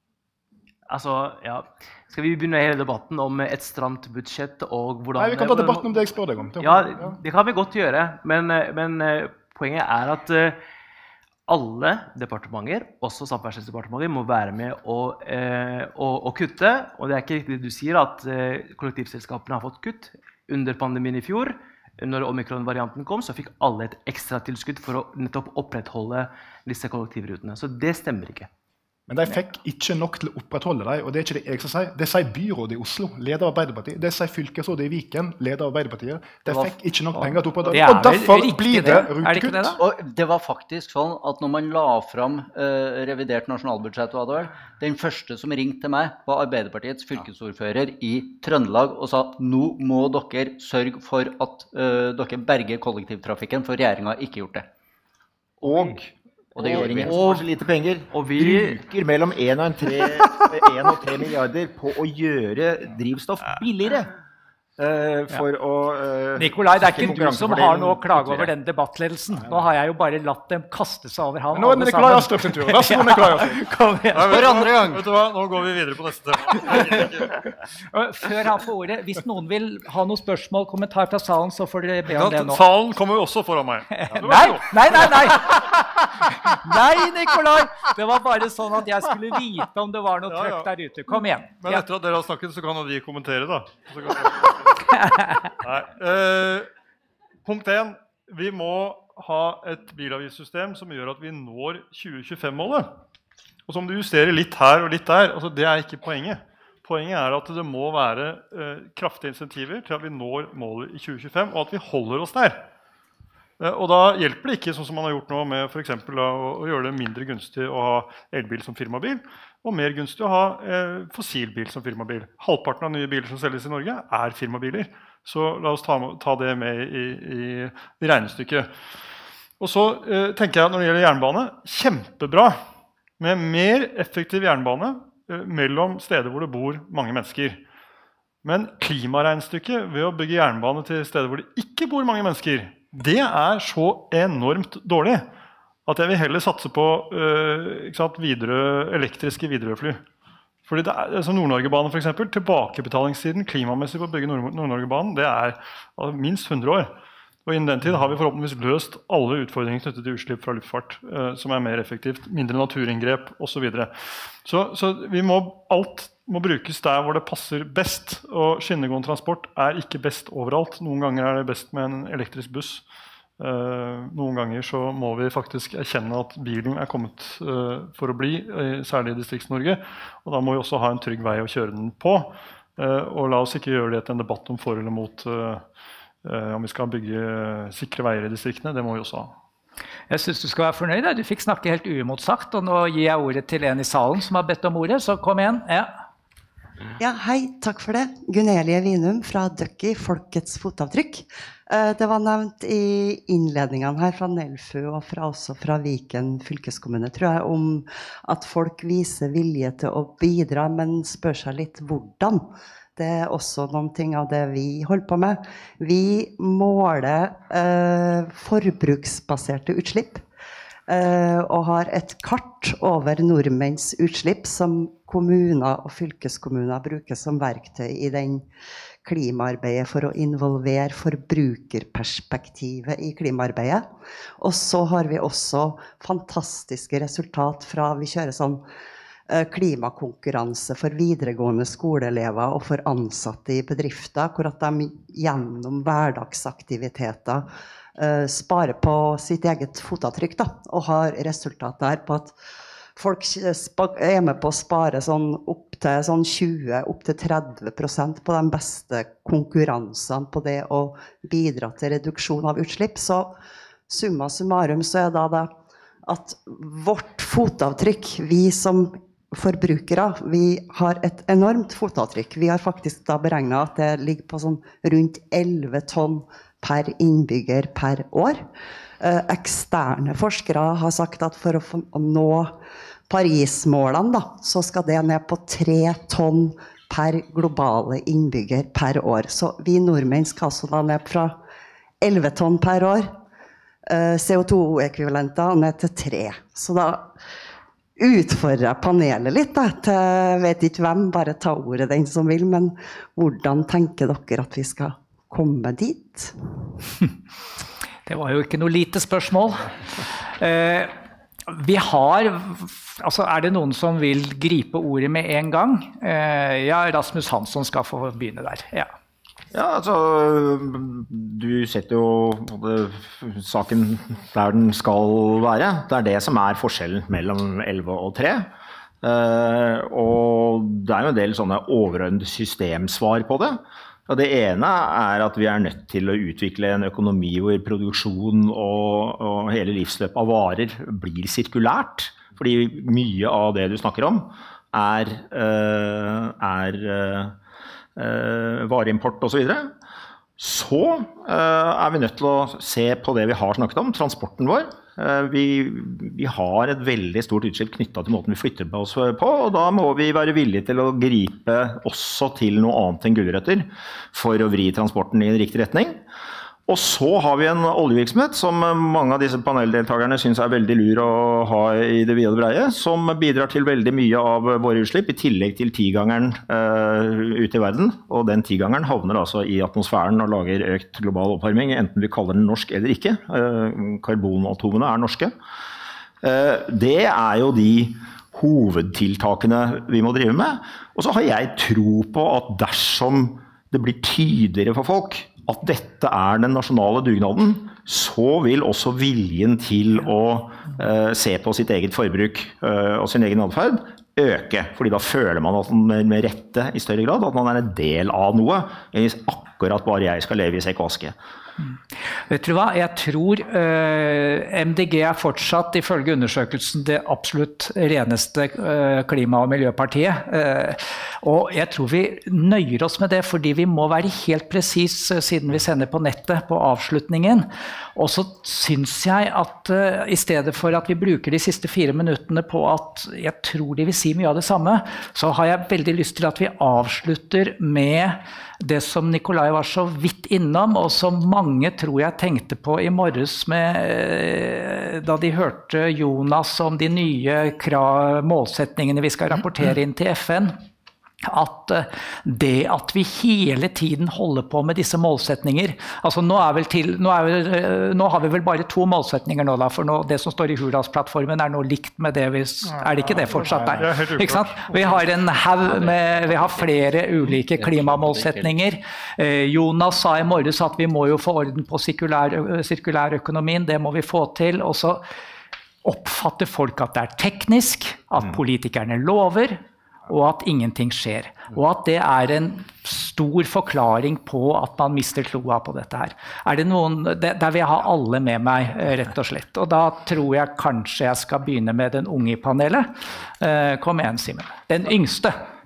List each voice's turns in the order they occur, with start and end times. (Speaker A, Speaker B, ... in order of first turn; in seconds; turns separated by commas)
Speaker A: 0.9-10.6, Speaker B: 5.2-7.1, Speaker A: 11.5-28.5, Speaker B: 29.1-39.8, Speaker C: 36.5-36.8, Speaker D: 37.1-39.8, Speaker C: 39.8-54.7, Speaker A: 55.6-56.0, Speaker E: 55.6-64.1, Speaker C: 56.6-57.2, Speaker A: 56.6-57.5, Speaker A: 58.1-58.8, Speaker E: 64.8-68.5, Speaker D: 66.3-74.7, Speaker B: 71.5-73.7, Speaker F: 74.1-77.3, Speaker C: 74.3-75.0, Speaker D: 76.7-77.0, Speaker D: 77.8-82.7, Speaker F: 82.1-85.1, Speaker D: 83.9-91.9, Speaker F: 90.3-94.8, Speaker D: 94.9-95.5, Speaker F: 95.6-96.7, Speaker F: 97.4-102.9, Speaker F: 103.7-112.6, Speaker F: 113.6-128.7, Speaker F: 129.6-132.6, Speaker F: 133.2-137.6, Speaker F: 138.4-145.3, Speaker F: 145.8-150.0, Speaker F: 150.6-156.9, Speaker F: 157.4-172.8, Speaker F: 173.4-185.7, Speaker F: 186.2-189.3, Speaker D: 190.1-195.9, Speaker G: 197.0-220.2, Speaker G: 220.9-228.5, Speaker G: 229.0-233.9, Speaker G: 234.4-238.6, Speaker G: 239.3-252.3, Speaker G: 252.9-263.3, Speaker G: 263.9-265.5, Speaker G: 266.1-278.5, Speaker G: 279.0-282.6, Speaker G: 283.1-291.4, Speaker G: 292.0-293.1, Speaker G: 293.9-297.1, Speaker G: 298.0-306.3, Speaker D: 308.1-310.9, Speaker D: 311.5-318.9, Speaker E: 319.5-347.4, Speaker E: 347.9-349.7, Speaker E: 350.4-366.0, Speaker E: 366.6-385.3, Speaker E: 386.2-411.1, Speaker D: 411.6-450.6, Speaker D: 451.2-475.0, Speaker F: 462.6-465.0, Speaker C: 465.7-466.6, Speaker C: 467.3-468.5, Speaker D: 475.8-495.4